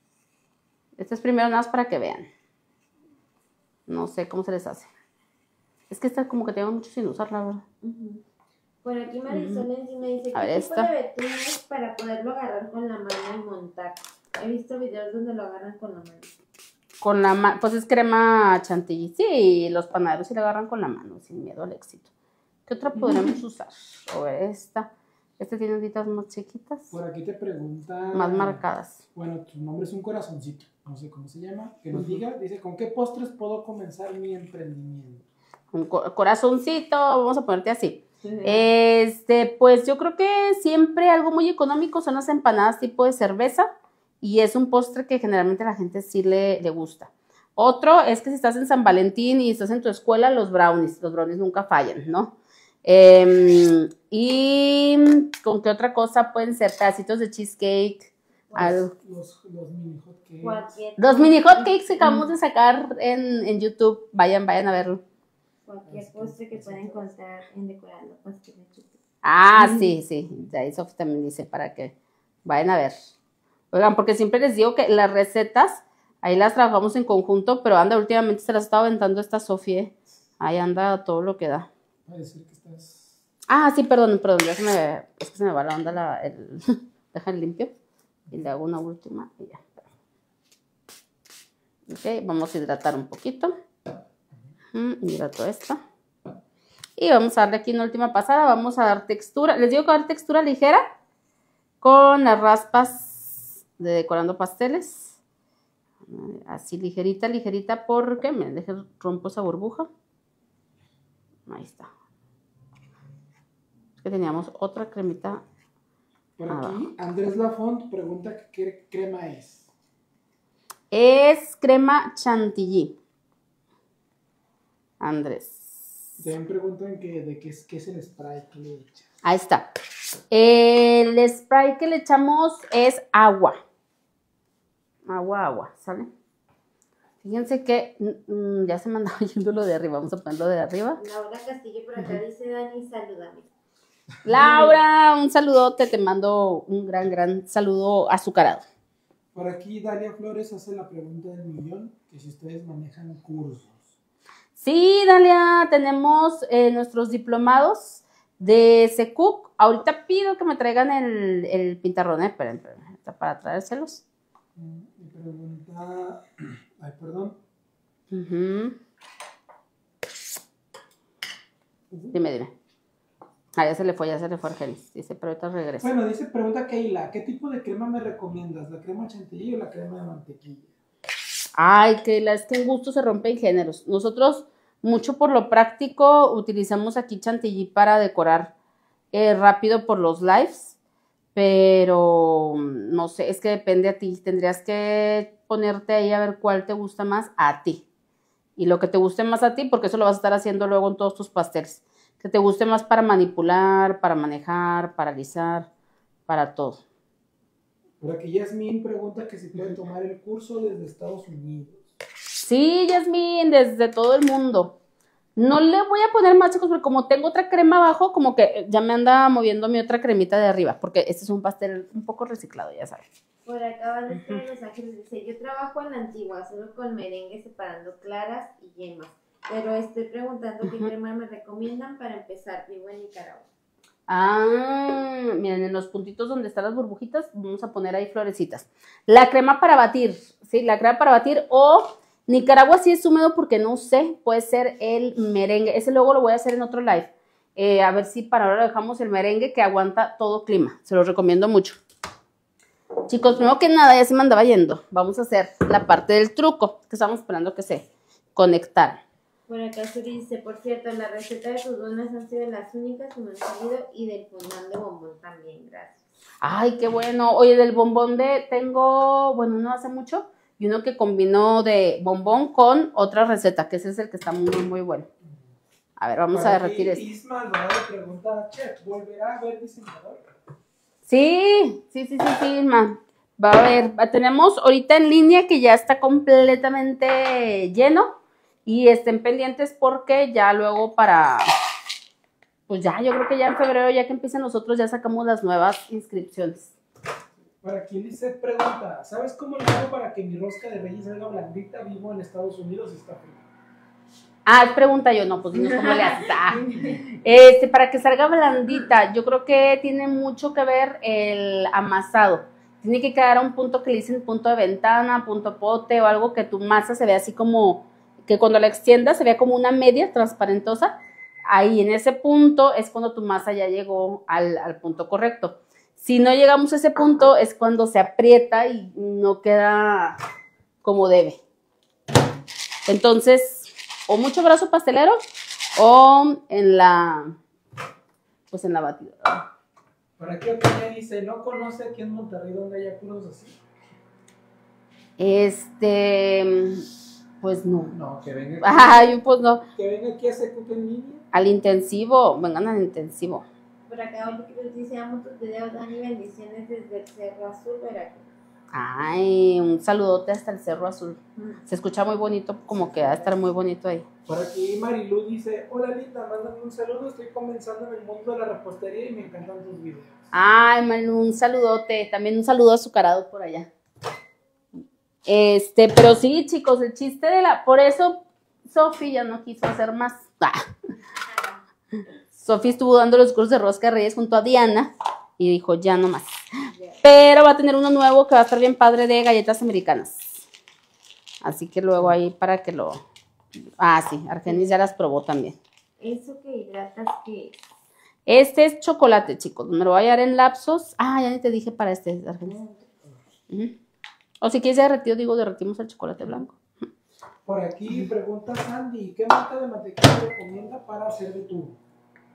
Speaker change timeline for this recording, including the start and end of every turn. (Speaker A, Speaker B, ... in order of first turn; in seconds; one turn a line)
Speaker A: 1.0-2.3
Speaker A: 3.9-4.9
Speaker A: 5.9-7.6
Speaker B: 7.8-8.2
Speaker B: 8.8-16.3
Speaker A: 9.3-9.7
Speaker A: 10.3-10.9
Speaker A: 17.0-22.1
Speaker A: 22.7-26.9
Speaker C: 26.9-28.6
Speaker A: 28.1-29.0
Speaker C: 29.1-35.3
Speaker A: 31.9-32.2
Speaker A: 35.7-43.7
Speaker B: 38.2-38.6
Speaker A: 44.2-58.9
Speaker C: 58.5-60.8
Speaker B: 60.4-62.3
Speaker A: 61.0-65.0
Speaker B: 65.7-69.0
Speaker C: 65.9-67.0
Speaker A: 69.2-71.9
Speaker B: 69.6-69.9
Speaker A: 72.5-73.0
Speaker A: 73.7-81.7
Speaker C: 82.1-83.1
Speaker A: 83.5-87.7
Speaker A: 88.3-89.9
Speaker A: 91.9-93.5
Speaker A: 94.7-95.8
Speaker A: 97.0-100.8
Speaker A: 101.8-105.2
Speaker A: 106.0-109.9
Speaker A: 111.5-111.9
Speaker A: 114.0-115.4
Speaker C: 116.4-119.7
Speaker A: 116.5-116.9
Speaker A: 120.9-123.0
Speaker A: 125.0-126.2
Speaker C: 126.2-129.1
Speaker A: 129.2-129.7
Speaker A: 130.3-133.6
Speaker A: 135.1-136.1
Speaker A: 137.2-141.0
Speaker B: 141.0-143.5
Speaker A: 144.2-148.6
Speaker C: 144.3-144.8
Speaker C: 149.3-153.9
Speaker A: 154.6-164.0
Speaker C: 164.6-167.4
Speaker A: 168.1-168.8
Speaker A: 172.1-172.5
Speaker A: 173.6-175.9
Speaker C: 175.8-180.7
Speaker A: 181.6-188.5
Speaker A: 189.1-190.8
Speaker A: 191.3-197.8
Speaker A: 198.6-205.7
Speaker A: 206.3-206.8
Speaker C: 208.0-211.9
Speaker A: 212.4-214.8
Speaker A: 215.4-223.1
Speaker B: 223.4-233.5
Speaker A: 224.1-224.4
Speaker A: 230.6-230.9
Speaker A: 234.1-251.8
Speaker A: 253.1-259.0
Speaker B: 259.5-266.0
Speaker A: 266.4-275.1
Speaker A: 276.0-277.0
Speaker C: 276.3-280.3
Speaker A: 281.1-291.5
Speaker A: 292.7-296.8
Speaker C: 297.6-303.5
Speaker A: 304.5-320.9
Speaker B: 305.6-307.0
Speaker A: 321.5-330.2
Speaker A: 330.8-331.4
Speaker A: 332.9-335.2
Speaker A: 335.8-337.4
Speaker A: 338.5-339.5
Speaker C: 340.2-343.6
Speaker A: 345.2-346.9
Speaker A: 347.4-347.9
Speaker C: 347.9-349.2
Speaker A: 348.6-349.6
Speaker C: 349.8-351.2
Speaker A: 351.3-353.5
Speaker B: 353.9-358.3
Speaker A: 358.7-364.1
Speaker C: 362.7-363.4
Speaker C: 364.3-370.3
Speaker A: 370.3-373.7
Speaker A: 375.3-380.6
Speaker A: 382.4-386.5
Speaker B: 386.7-387.0
Speaker A: 387.0-390.4
Speaker A: 391.4-393.0
Speaker A: 393.8-395.6
Speaker B: 396.0-397.6
Speaker A: 398.3-402.6
Speaker C: 402.4-403.2
Speaker A: 403.5-403.8
Speaker A: 404.4-406.6
Speaker C: 407.4-411.8